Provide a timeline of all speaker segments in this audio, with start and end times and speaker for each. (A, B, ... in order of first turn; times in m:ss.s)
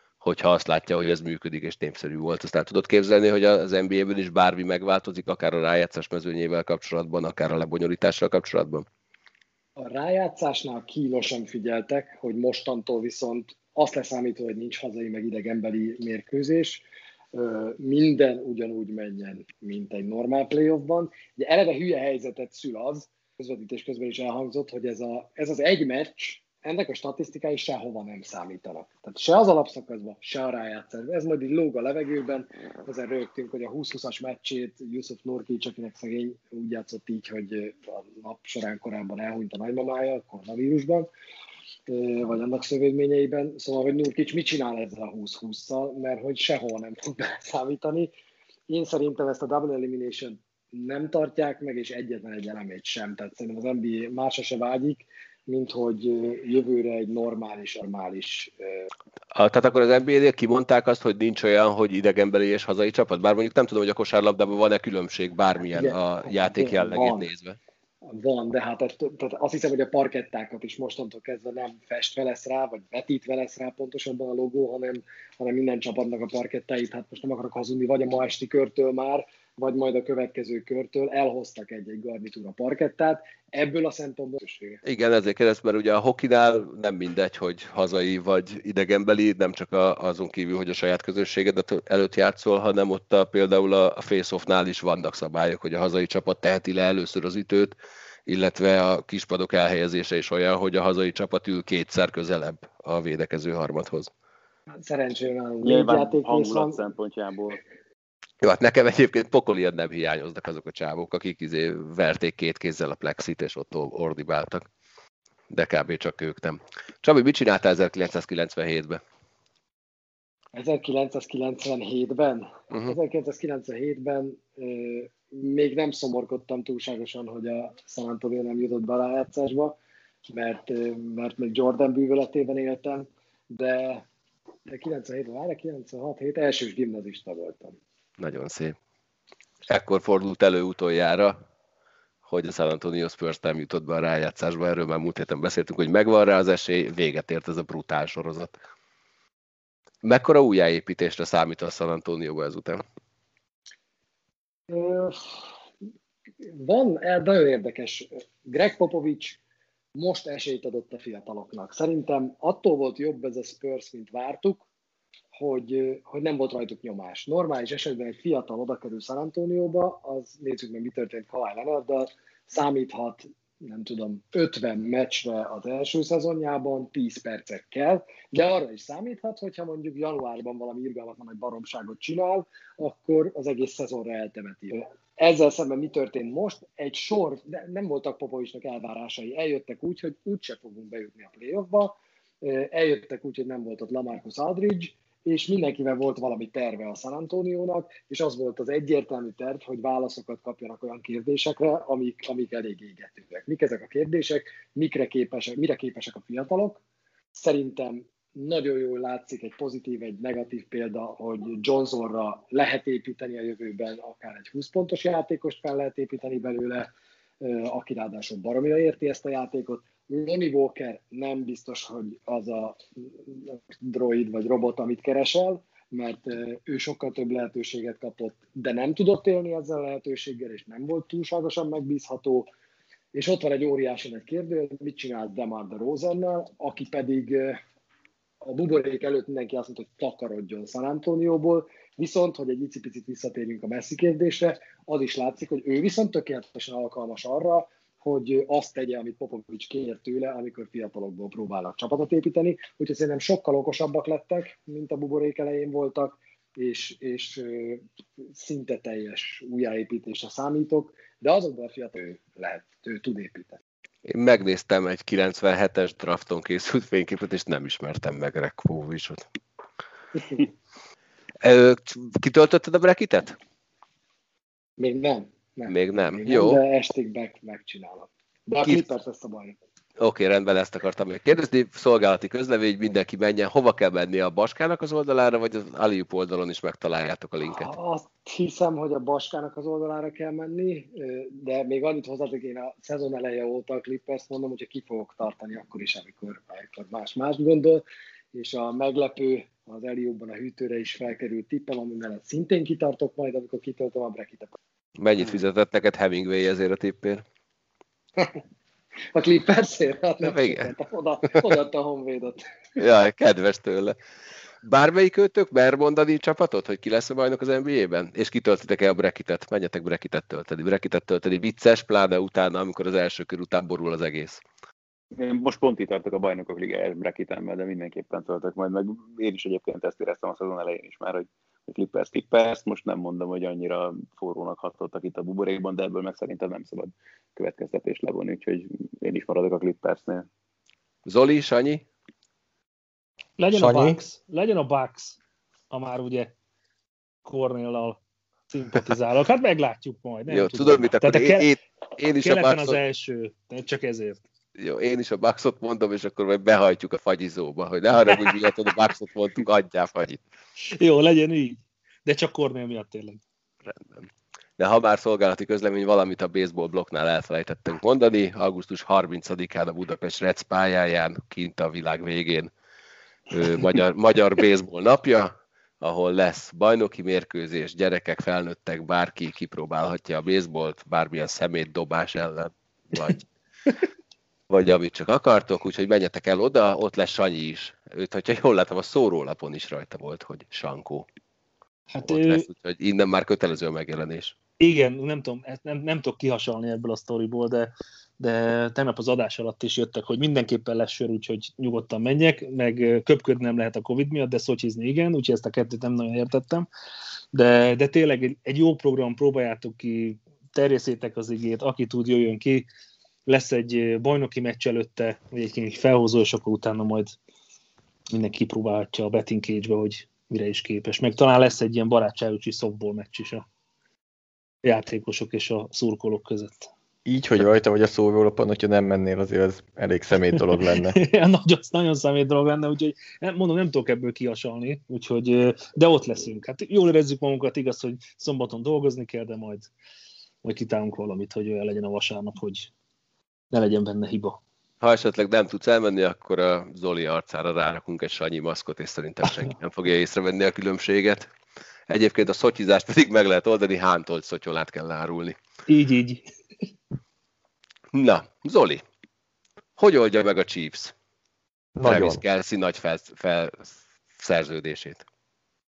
0:00.2-0:08.8 A
0:09.8-0:41.1 B
0:41.9-0:48.1 B
0:48.7-0:58.9 B
0:59.3-1:07.6 A
1:05.7-1:07.3 B
1:08.1-1:24.8 B
1:24.8-1:37.7 A
1:38.3-1:44.1 A
1:44.8-1:46.8 B
1:45.6-1:47.6 C
1:48.4-1:54.7 A
1:55.5-1:59.0 A
2:00.5-2:09.8 B
2:10.3-2:14.0 B
2:14.7-2:17.8 B
2:18.2-2:18.8 A
2:19.7-2:21.4 A
2:22.2-2:28.5 A
2:30.0-2:32.8 A
2:34.7-2:35.3 B
2:36.4-2:39.4 B
2:39.9-2:44.6 B
2:45.3-3:26.8 B
3:27.3-3:36.9 B
3:37.4-3:52.5 B
3:53.1-3:57.6 B
3:58.4-4:23.6 B
4:24.0-4:29.2 A
4:31.4-4:33.4 A
4:34.8-4:39.6 B
4:35.7-4:36.6 A
4:40.0-4:47.7 A
4:47.4-5:04.5 B
5:05.0-5:07.2 A
5:09.1-5:12.4 B
5:10.2-5:10.7 A
5:12.8-5:14.0 A
5:14.6-5:24.4 A
5:25.1-5:40.2 C
5:41.0-5:41.8 A
5:43.4-5:45.2 D
5:43.5-5:44.0 E
5:45.7-5:46.3 D
5:47.2-5:51.5 D
5:50.3-5:52.8 A
5:52.1-5:54.2 D
5:54.6-6:00.2 A
6:00.7-6:03.2 D
6:03.7-6:12.5 A
6:13.3-6:23.2 A
6:24.5-6:31.0 A
6:31.9-6:32.4 D
6:32.0-6:34.3 A
6:34.6-6:46.7 D
6:47.3-6:52.6 D
6:53.2-6:57.2 D
6:58.1-7:03.4 D
7:04.6-7:06.7 D
7:07.0-7:11.0 E
7:10.9-7:19.7 D
7:20.4-7:22.7 D
7:23.5-7:24.4 D
7:24.8-7:31.3 A
7:31.9-7:35.4 A
7:35.7-7:36.2 D
7:37.9-7:38.8 A
7:39.8-7:40.9 A
7:41.8-7:42.2 E
7:41.8-7:45.0 A